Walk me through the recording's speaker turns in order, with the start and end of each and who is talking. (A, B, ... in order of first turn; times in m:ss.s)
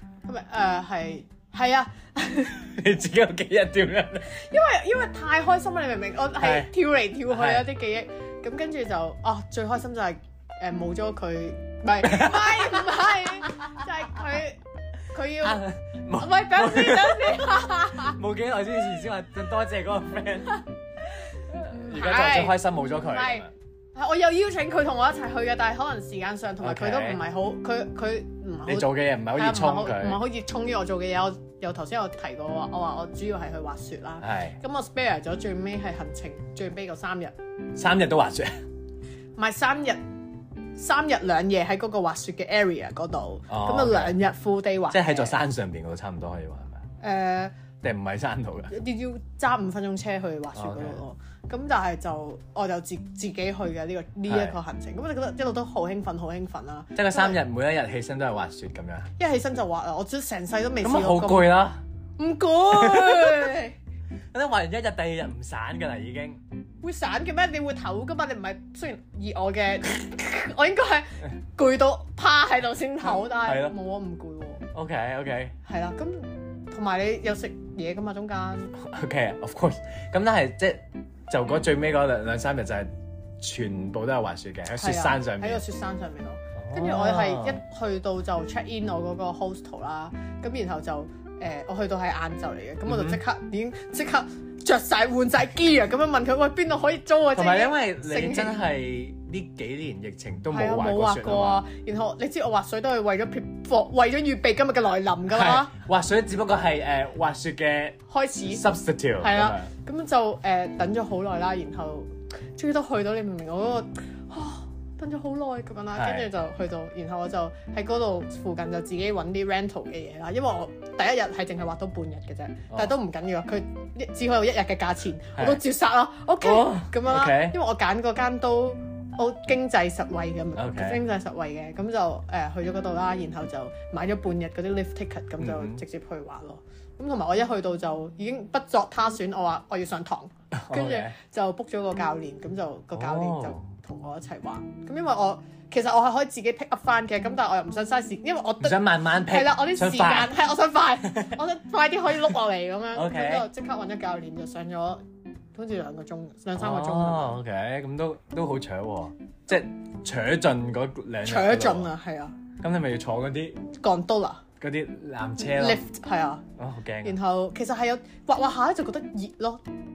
0:00.2-0:02.6 A
0:02.5-0:04.4 B
0:04.3-0:14.6 A
0:06.4-0:06.7 B
0:07.2-0:07.7 B
0:12.0-0:13.0 B
0:15.1-0:18.2 A
0:15.4-0:20.6 B
0:21.5-0:37.3 A
0:21.5-0:23.5 B
0:26.6-0:27.2 B
0:28.6-0:30.2 B
0:34.2-0:34.6 B
0:37.7-0:38.5 B
0:39.4-0:40.0 A
0:40.8-0:45.4 A
0:43.5-0:44.2 B
0:44.9-0:46.8 B
0:47.0-0:47.5 A
0:47.8-0:48.7 B
0:48.7-0:57.4 A
0:50.5-0:51.0 B
0:54.3-0:54.6 B
0:57.0-0:59.1 B
0:59.2-1:01.6 A
1:00.8-1:01.8 B
1:02.2-1:03.8 A
1:02.7-1:03.6 B
1:04.3-1:06.4 B
1:06.8-1:14.7 A
1:13.1-1:13.7 B
1:14.7-1:15.6 B
1:15.6-1:18.7 A
1:18.8-1:25.6 B
1:24.7-1:38.6 A
1:26.6-1:27.6 B
1:32.8-1:33.2 B
1:37.3-1:41.6 B
1:40.5-1:45.7 A
1:45.3-1:49.7 B
1:48.1-1:48.6 A
1:49.2-2:35.0 A
1:55.9-1:56.3 B
2:06.4-2:07.6 B
2:10.6-2:11.0 B
2:15.4-2:15.8 B
2:20.5-2:21.1 B
2:22.9-2:23.6 B
2:28.6-2:30.3 B
2:32.9-2:33.5 B
2:35.5-2:37.4 A
2:36.6-2:41.9 B
2:41.2-2:42.4 A
2:42.6-2:43.6 B
2:43.7-2:44.4 A
2:44.6-2:45.8 B
2:45.4-2:46.4 A
2:46.6-2:47.2 B
2:47.0-2:49.6 A